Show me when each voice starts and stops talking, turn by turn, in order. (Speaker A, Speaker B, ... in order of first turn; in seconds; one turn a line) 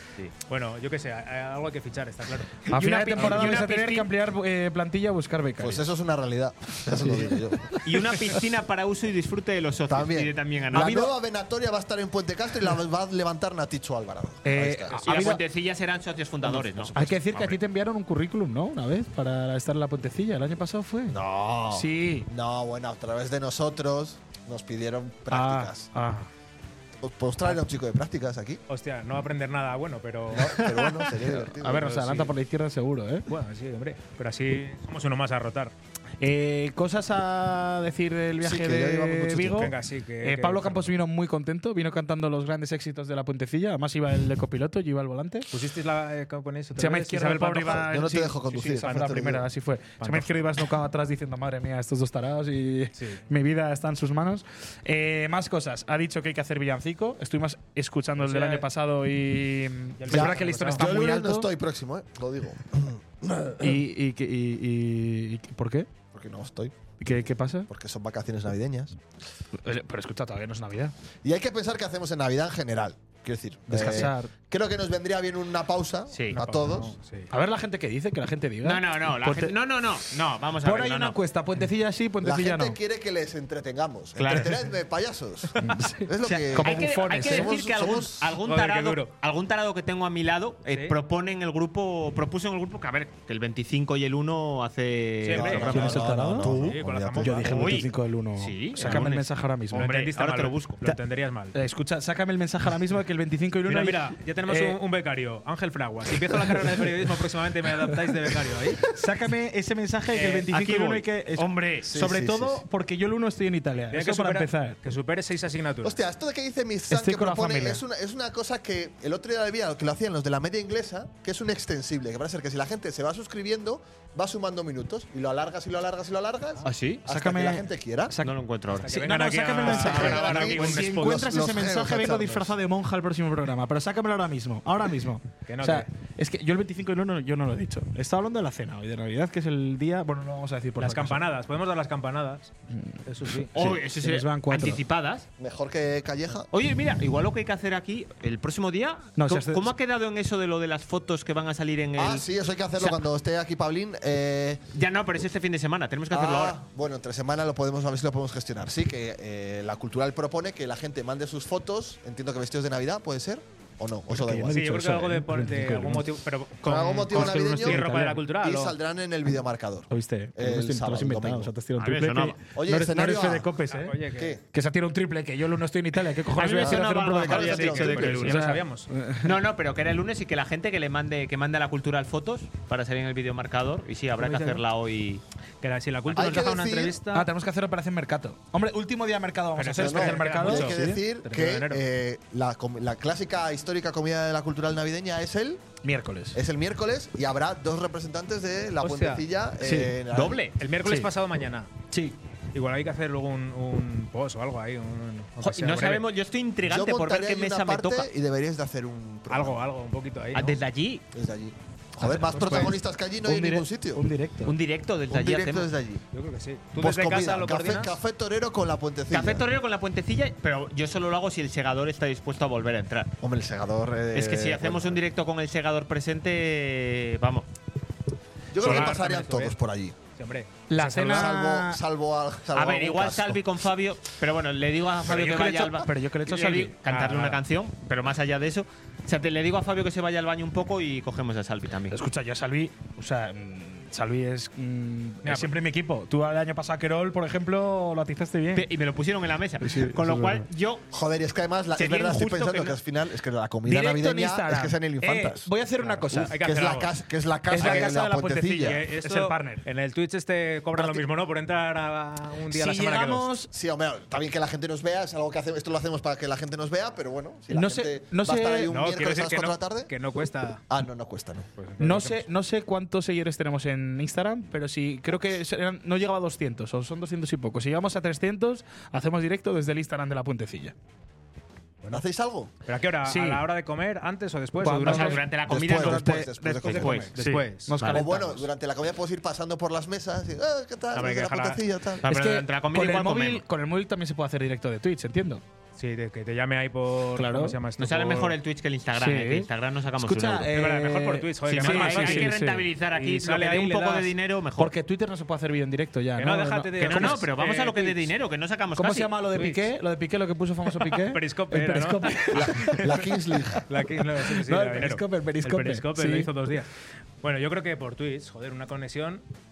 Speaker A: 0.4-2.6
Speaker B: 2.6-4.1
Speaker C: 2.7-5.8
Speaker A: 3.2-3.4
Speaker D: 5.6-7.7
Speaker C: 7.0-7.9
Speaker B: 7.8-11.1
Speaker D: 9.9-15.2
Speaker C: 10.8-11.1
Speaker C: 14.4-15.4
Speaker B: 15.0-17.6
Speaker D: 16.4-17.1
Speaker C: 16.9-21.2
Speaker D: 21.1-25.9
Speaker C: 21.7-22.3
Speaker C: 25.3-26.3
Speaker D: 27.0-28.6
Speaker A: 28.7-30.6
Speaker D: 30.3-31.9
Speaker C: 31.4-33.3
Speaker A: 31.6-32.3
Speaker A: 33.3-35.7
Speaker C: 36.2-45.5
Speaker D: 38.4-39.7
Speaker A: 39.5-40.9
Speaker A: 45.5-47.9
Speaker C: 46.8-61.5
Speaker D: 47.6-49.5
Speaker A: 48.7-49.1
Speaker A: 50.0-50.3
Speaker A: 53.0-53.2
Speaker A: 58.2-58.7
Speaker A: 60.0-60.9
Speaker D: 60.1-63.8
Speaker C: 63.6-65.9
Speaker D: 66.1-66.7
Speaker C: 67.0-67.7
Speaker D: 67.7-69.0
Speaker C: 69.6-70.9
Speaker D: 71.2-76.9
Speaker C: 73.7-74.3
Speaker B: 76.1-76.4
Speaker A: 76.3-77.3
Speaker C: 77.3-79.5
Speaker B: 78.6-81.2
Speaker C: 80.6-82.8
Speaker D: 82.2-88.3
Speaker B: 84.2-84.6
Speaker C: 85.6-87.5
Speaker B: 86.6-96.2
Speaker A: 88.4-89.1
Speaker A: 90.7-91.0
Speaker A: 95.2-97.9
Speaker D: 95.3-97.5
Speaker C: 95.7-100.0
Speaker B: 97.4-99.2
Speaker A: 98.8-101.5
Speaker B: 99.7-100.8
Speaker C: 101.5-104.8
Speaker A: 103.6-108.8
Speaker C: 106.4-106.8
Speaker C: 108.9-114.8
Speaker A: 110.1-110.5
Speaker B: 110.5-111.9
Speaker D: 111.8-112.6
Speaker A: 113.9-116.0
Speaker D: 115.8-128.1
Speaker C: 116.9-117.8
Speaker B: 126.6-127.0
Speaker C: 127.0-128.3
Speaker B: 128.2-128.9
Speaker A: 128.7-131.3
Speaker C: 128.8-141.2
Speaker D: 129.7-132.5
Speaker A: 135.5-135.9
Speaker A: 140.8-142.5
Speaker C: 142.7-144.8
Speaker A: 143.1-143.5
Speaker B: 143.5-145.2
Speaker D: 145.4-146.5
Speaker B: 146.5-152.2
Speaker C: 149.2-149.7
Speaker D: 152.0-154.6
Speaker B: 154.7-156.6
Speaker D: 156.1-164.6
Speaker C: 164.1-166.1
Speaker A: 164.5-168.8
Speaker D: 166.6-171.5
Speaker C: 167.1-168.2
Speaker C: 169.9-174.0
Speaker B: 171.8-172.4
Speaker D: 172.5-173.5
Speaker A: 173.7-174.3
Speaker D: 174.1-174.4
Speaker C: 174.5-179.4
Speaker B: 176.3-178.5
Speaker A: 177.1-178.9
Speaker D: 177.4-178.1
Speaker B: 179.2-185.2
Speaker A: 184.2-184.6
Speaker A: 185.6-187.3
Speaker D: 186.1-187.0
Speaker C: 187.1-191.0
Speaker A: 189.6-191.8
Speaker D: 189.8-195.6
Speaker C: 195.8-196.4
Speaker D: 196.3-200.4
Speaker A: 198.8-199.2
Speaker C: 199.6-199.9
Speaker B: 200.1-200.6
Speaker A: 200.5-201.7
Speaker C: 201.9-202.2
Speaker A: 202.5-206.1
Speaker B: 205.4-208.1
Speaker D: 206.7-209.6
Speaker A: 209.3-210.6
Speaker B: 210.3-211.0
Speaker D: 211.1-214.0
Speaker C: 212.0-214.5
Speaker A: 212.3-212.7
Speaker B: 214.4-215.7
Speaker D: 215.1-216.0
Speaker A: 216.1-218.0
Speaker D: 216.8-219.4
Speaker B: 219.1-223.1
Speaker D: 223.2-225.0
Speaker B: 224.1-227.5
Speaker D: 228.5-229.9
Speaker A: 228.6-229.5
Speaker C: 228.6-228.9
Speaker A: 230.1-231.3
Speaker C: 230.7-231.8
Speaker D: 231.1-233.4
Speaker B: 232.5-242.0
Speaker C: 235.1-236.7
Speaker A: 236.9-237.4
Speaker C: 241.9-248.6
Speaker A: 245.2-245.6
Speaker B: 248.5-250.9
Speaker C: 249.6-250.4
Speaker D: 250.9-258.8
Speaker B: 251.8-252.8
Speaker C: 253.6-256.4
Speaker A: 255.8-257.0
Speaker C: 257.5-259.6
Speaker A: 257.5-257.9
Speaker A: 258.6-263.4
Speaker D: 260.8-261.0
Speaker C: 262.5-263.5
Speaker D: 263.5-269.9
Speaker C: 267.5-268.7
Speaker A: 268.7-270.6
Speaker D: 270.7-271.5
Speaker A: 271.6-272.3
Speaker C: 271.8-280.7
Speaker D: 281.9-282.5
Speaker A: 282.6-285.3
Speaker C: 283.1-283.4
Speaker C: 284.6-286.3
Speaker B: 284.8-287.2
Speaker D: 285.4-287.1
Speaker A: 286.6-288.4
Speaker C: 287.2-288.2
Speaker D: 287.9-292.0
Speaker A: 290.9-291.6
Speaker B: 292.0-293.4
Speaker C: 292.0-295.4
Speaker A: 295.8-298.4
Speaker C: 297.1-297.6
Speaker B: 297.8-300.5
Speaker C: 298.9-299.5
Speaker C: 300.0-302.7
Speaker A: 300.4-302.4
Speaker B: 301.5-304.7
Speaker A: 302.9-304.1
Speaker C: 304.6-307.2
Speaker A: 306.2-308.1
Speaker B: 306.8-309.1
Speaker C: 308.8-313.6
Speaker A: 309.3-309.6
Speaker A: 310.6-313.0
Speaker D: 312.3-313.6
Speaker A: 313.7-319.2
Speaker C: 314.2-316.3